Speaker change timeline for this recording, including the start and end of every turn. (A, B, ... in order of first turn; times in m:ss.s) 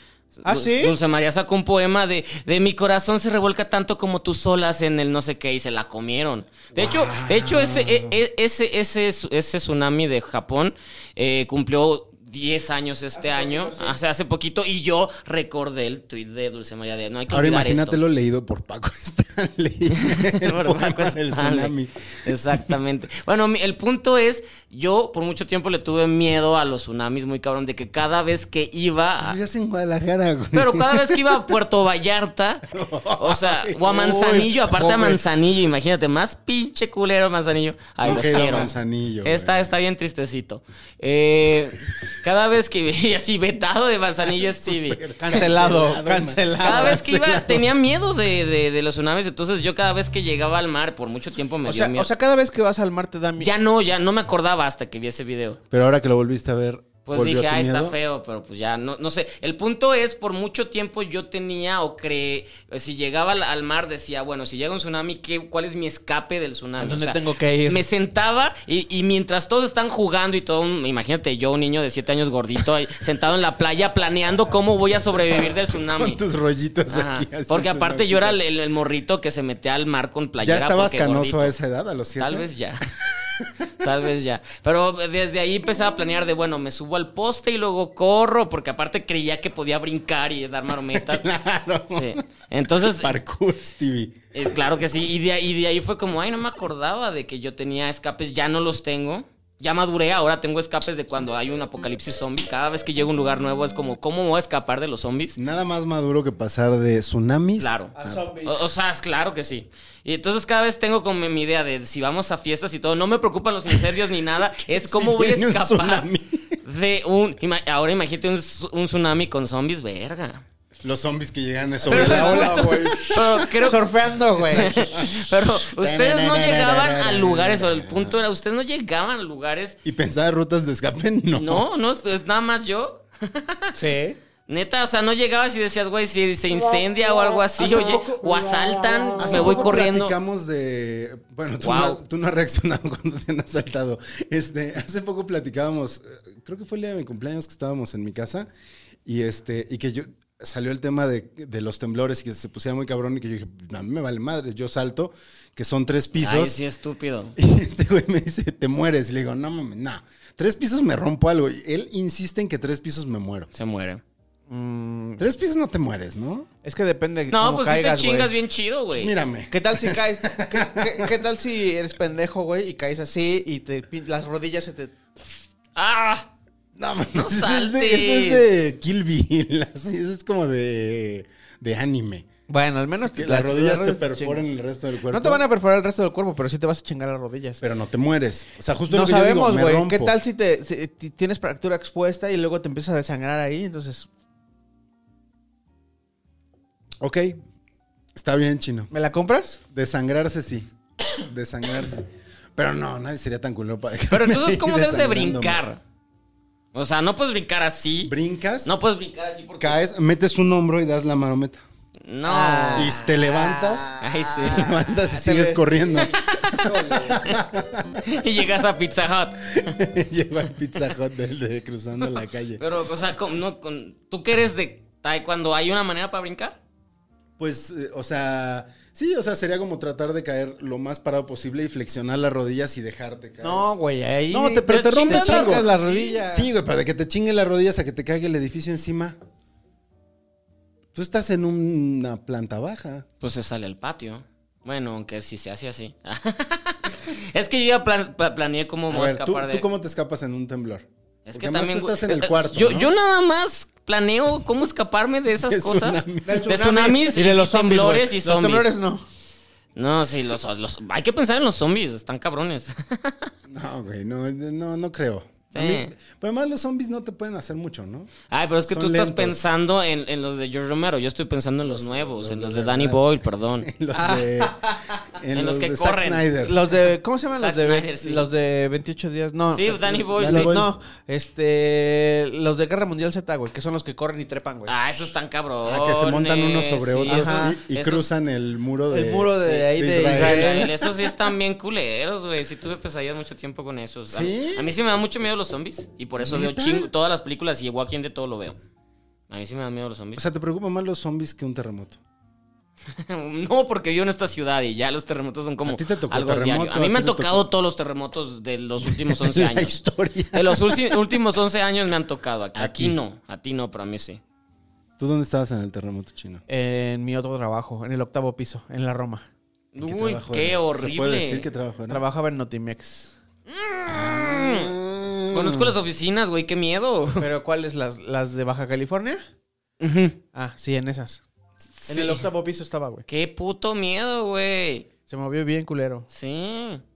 0:00.3-0:18.0 A
0:00.4-0:01.0 B
0:06.7-0:08.2 C
0:13.1-0:14.0 B
0:17.3-0:22.8 C
0:19.9-0:21.7 A
0:22.2-0:29.4 A
0:29.2-0:31.6 C
0:30.5-0:45.5 A
0:32.7-0:35.3 C
0:38.0-0:39.7 C
0:44.4-0:47.7 C
0:45.2-0:47.0 B
0:46.6-0:52.1 A
0:51.6-0:53.5 B
0:53.4-0:55.6 A
0:55.7-0:58.0 C
0:57.0-1:16.2 A
1:06.8-1:07.8 B
1:14.9-1:18.4 C
1:16.9-1:21.5 A
1:20.4-1:22.5 C
1:22.2-1:31.3 A
1:23.1-1:23.8 C
1:30.9-1:32.2 C
1:31.9-1:33.2 A
1:32.8-1:34.2 C
1:34.3-1:45.4 A
1:45.4-1:48.2 C
1:47.6-1:56.0 A
1:47.9-1:48.6 B
1:53.7-1:54.0 C
1:54.7-1:56.6 C
1:56.6-2:00.4 A
2:00.8-2:03.7 C
2:01.8-2:04.8 B
2:01.9-2:03.8 A
2:04.4-2:08.2 C
2:04.4-2:09.8 A
2:09.8-2:11.6 C
2:11.3-2:13.8 A
2:13.7-2:14.2 B
2:14.5-2:20.2 A
2:17.5-2:18.5 C
2:19.2-2:28.5 C
2:21.6-2:22.0 A
2:29.0-2:36.6 C
2:36.1-2:37.4 A
2:37.4-2:43.5 C
2:43.5-2:44.0 A
2:44.5-2:45.2 B
2:45.2-2:46.5 C
2:46.6-2:48.3 B
2:47.3-2:49.1 A
2:48.9-2:51.2 C
2:49.5-2:55.0 B
2:55.8-2:56.3 A
2:56.8-3:02.3 C
2:57.1-2:58.4 A
3:02.5-3:04.4 B
3:03.0-3:05.4 C
3:05.1-3:07.6 B
3:07.6-3:10.2 C
3:08.9-3:14.1 B
3:17.0-3:17.4 C
3:18.2-3:18.9 C
3:18.9-3:19.6 B
3:19.7-3:25.6 C
3:24.1-3:25.8 A
3:26.7-3:28.1 A
3:27.8-3:28.7 C
3:28.6-3:29.8 A
3:29.6-3:31.6 C
3:32.0-3:33.0 A
3:32.2-3:36.2 B
3:32.7-3:33.9 C
3:34.0-3:34.7 A
3:34.4-3:38.2 C
3:36.0-3:37.4 A
3:38.0-3:39.8 A
3:39.5-3:42.6 C
3:42.0-3:46.6 A
3:47.4-3:53.6 C
3:53.4-3:56.5 B
3:54.3-3:55.7 C
3:54.7-3:56.2 A
3:56.3-3:59.2 C
4:00.9-4:03.0 C
4:03.2-4:09.6 A
4:08.9-4:12.9 C
4:11.2-4:18.7 A
4:15.4-4:16.5 C
4:16.2-4:19.0 B
4:19.8-4:23.3 A
4:23.5-4:28.1 C
4:25.5-4:25.9 A
4:28.3-4:33.7 A
4:28.7-4:29.4 C
4:31.6-4:33.0 C
4:33.6-4:36.6 C
4:33.9-4:35.0 B
4:35.3-4:36.2 A
4:36.4-4:44.7 B
4:37.4-4:38.3 A
4:39.5-4:40.6 A
4:40.2-4:40.7 C
4:44.7-4:48.1 A
4:45.6-4:50.9 C
4:47.1-4:47.6 B
4:48.9-4:50.7 B
4:50.1-4:58.6 A
4:54.1-4:54.7 C
4:56.2-4:56.9 C
4:59.3-5:00.2 A
5:00.2-5:02.0 C
5:02.9-5:09.8 A
5:05.6-5:07.4 C
5:08.8-5:11.2 C
5:10.3-5:14.2 A
5:12.5-5:13.0 C
5:15.0-5:16.4 C
5:16.5-5:19.3 B
5:19.7-5:21.5 A
5:19.8-5:22.0 C
5:21.9-5:23.1 B
5:23.5-5:24.7 A
5:23.9-5:25.8 C
5:25.3-5:27.2 A
5:27.2-5:29.2 B
5:29.8-5:30.2 A
5:30.3-5:31.2 B
5:31.7-5:32.2 A
5:31.9-5:33.0 B
5:33.1-5:34.9 A
5:35.1-5:36.1 B
5:36.1-5:36.8 A